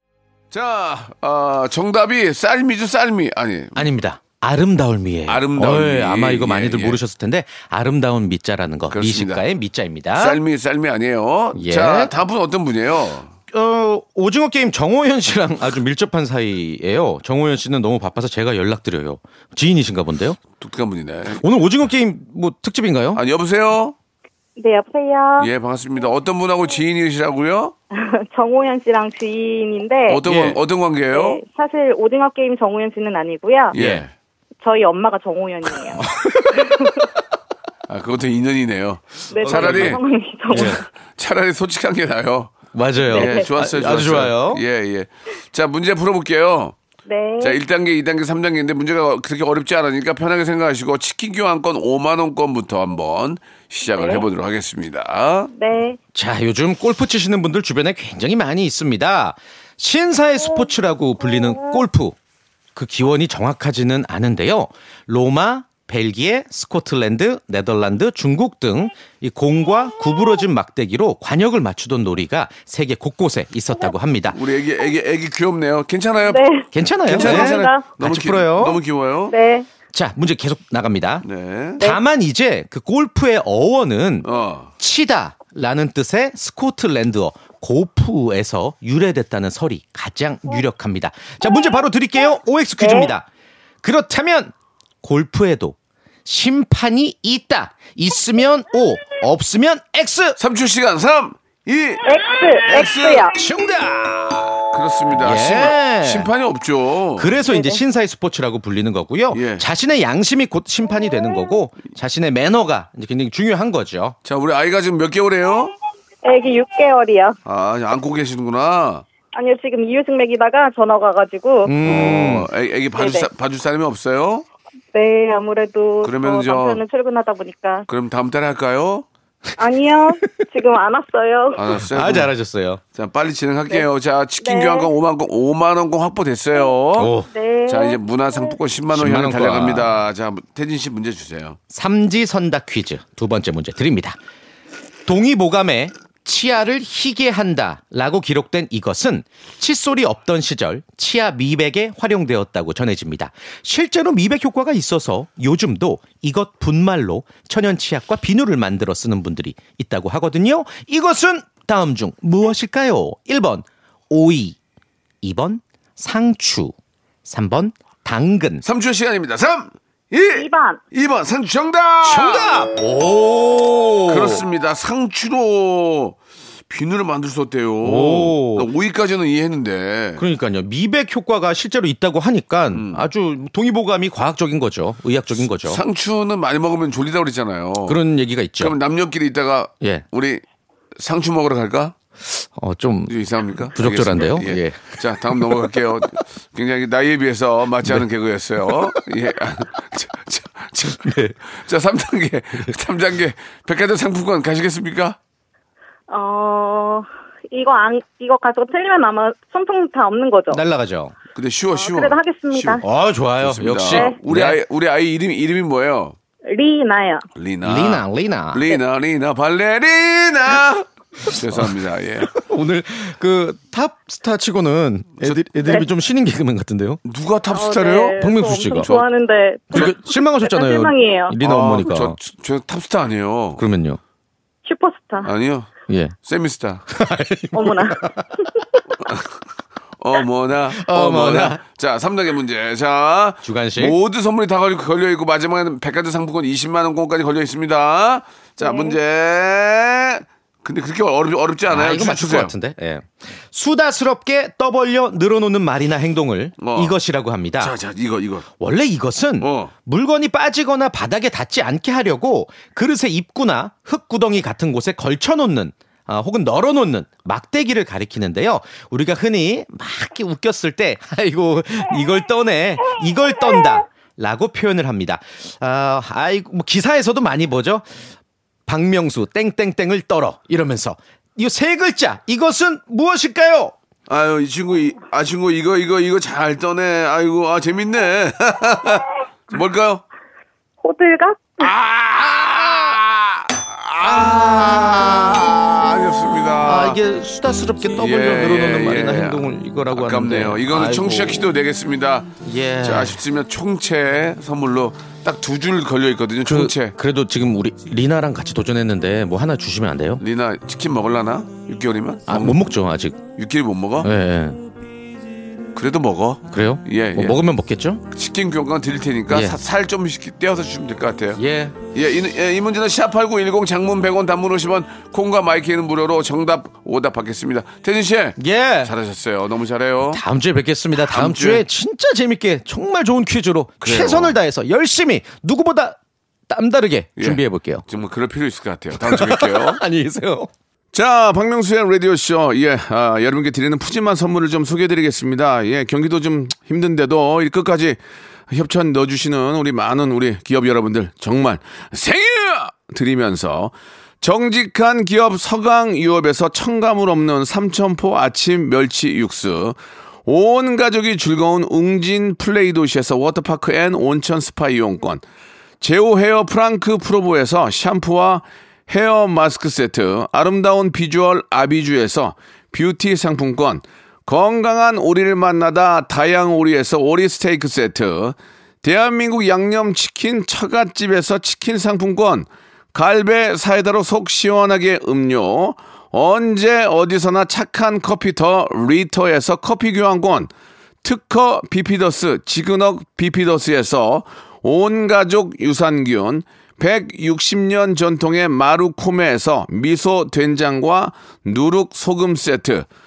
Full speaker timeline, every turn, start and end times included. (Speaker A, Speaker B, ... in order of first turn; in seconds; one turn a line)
Speaker A: 0.5-3.9
Speaker B: 3.8-10.4
Speaker A: 5.3-7.0
Speaker A: 8.9-9.4
Speaker A: 10.2-13.3
Speaker B: 11.6-12.1
Speaker B: 13.5-20.4
Speaker A: 20.6-21.4
Speaker B: 21.4-23.2
Speaker A: 23.1-23.9
Speaker C: 24.6-25.5
Speaker A: 25.4-27.8
Speaker C: 27.9-30.2
Speaker A: 30.1-31.4
Speaker B: 30.2-30.6
Speaker C: 31.1-33.8
Speaker A: 33.7-34.1
Speaker B: 33.7-34.0
Speaker C: 34.6-37.1
Speaker B: 36.0-36.5
Speaker A: 37.9-46.8
Speaker C: 39.3-40.8
Speaker B: 39.4-40.8
Speaker B: 42.7-44.6
Speaker C: 43.1-43.5
Speaker C: 47.1-47.6
Speaker A: 47.4-55.5
Speaker C: 54.0-54.2
Speaker C: 55.5-56.0
Speaker B: 56.1-62.2
Speaker B: 62.8-74.4
Speaker A: 74.3-76.4
Speaker C: 76.3-77.9
Speaker B: 76.7-78.8
Speaker A: 77.1-79.3
Speaker C: 79.3-79.7
Speaker B: 79.9-81.2
Speaker A: 81.2-81.8
Speaker B: 81.8-84.3
Speaker A: 84.2-84.7
Speaker B: 84.8-93.3
Speaker C: 91.5-91.7
Speaker C: 92.8-93.1
Speaker B: 93.8-100.4
Speaker A: 100.4-103.3
Speaker C: 102.0-103.3
Speaker B: 103.3-104.6
Speaker A: 104.7-107.4
Speaker B: 105.2-106.3
Speaker B: 107.2-114.2
Speaker C: 107.5-107.8
Speaker A: 109.3-109.6
Speaker A: 114.2-115.7
Speaker C: 116.2-117.4
Speaker A: 117.5-119.0
Speaker C: 119.3-121.7
Speaker B: 121.7-122.5
Speaker A: 121.8-124.5
Speaker C: 123.0-123.3
Speaker C: 124.9-127.9
Speaker A: 126.0-126.8
Speaker A: 127.9-129.1
Speaker C: 129.6-131.7
Speaker A: 131.6-132.3
Speaker B: 131.9-132.8
Speaker A: 132.9-137.1
Speaker C: 134.4-134.9
Speaker B: 137.0-137.3
Speaker C: 137.3-138.6
Speaker A: 137.7-141.6
Speaker B: 138.9-139.9
Speaker B: 141.7-144.2
Speaker B: 145.1-164.6
Speaker B: 165.2-166.7
Speaker B: 167.3-168.6
Speaker A: 168.6-172.5
Speaker C: 170.3-170.8
Speaker B: 172.0-174.4
Speaker A: 174.1-176.2
Speaker A: 176.7-180.2
Speaker B: 177.8-178.7
Speaker B: 180.2-185.8
Speaker A: 182.7-183.0
Speaker A: 185.7-188.0
Speaker B: 187.9-188.8
Speaker A: 188.6-190.4
Speaker A: 191.0-191.9
Speaker B: 192.2-193.1
Speaker A: 193.1-205.2
Speaker B: 193.8-195.7
Speaker B: 198.7-199.0
Speaker B: 200.9-201.3
Speaker C: 206.1-210.6
Speaker B: 210.5-211.1
Speaker A: 211.3-212.8
Speaker C: 211.7-212.8
Speaker B: 212.8-214.6
Speaker A: 213.4-216.2
Speaker C: 213.9-214.2
Speaker C: 216.5-217.2
Speaker A: 217.4-222.3
Speaker B: 217.6-218.6
Speaker B: 222.2-227.0
Speaker A: 227.1-228.2
Speaker C: 227.5-231.4
Speaker B: 228.2-228.9
Speaker B: 229.7-232.2
Speaker A: 231.4-233.6
Speaker B: 233.6-234.0
Speaker C: 234.7-235.3
Speaker A: 235.2-235.7
Speaker B: 235.9-236.2
Speaker A: 236.2-236.8
Speaker B: 236.9-238.2
Speaker C: 237.5-238.7
Speaker A: 239.1-239.3
Speaker A: 240.0-252.5
Speaker B: 240.8-241.6
Speaker B: 243.4-244.0
Speaker C: 248.6-249.0
Speaker B: 251.7-257.7
Speaker A: 256.6-256.9
Speaker A: 257.6-258.5
Speaker B: 258.6-277.8
Speaker A: 259.4-259.7
Speaker B: 278.7-283.7
Speaker A: 284.1-290.0
Speaker C: 290.8-291.7
Speaker A: 291.6-297.0
Speaker B: 296.6-301.5
Speaker A: 298.0-306.9
Speaker B: 302.4-303.2
Speaker B: 306.5-310.2
Speaker A: 310.2-312.6
Speaker B: 312.3-313.2
Speaker A: 313.4-314.1
Speaker B: 314.0-314.6
Speaker A: 315.8-317.4
Speaker B: 316.5-318.0
Speaker A: 318.1-321.4
Speaker B: 319.3-319.6
Speaker B: 321.4-321.8
Speaker A: 321.9-330.2
Speaker B: 328.4-328.9
Speaker B: 330.1-336.0
Speaker A: 331.0-331.6
Speaker A: 333.8-334.4
Speaker B: 336.5-337.8
Speaker A: 337.2-339.8
Speaker B: 339.1-340.5
Speaker A: 340.9-348.0
Speaker A: 348.5-365.2
Speaker A: 365.8-390.5
Speaker A: 391.0-402.9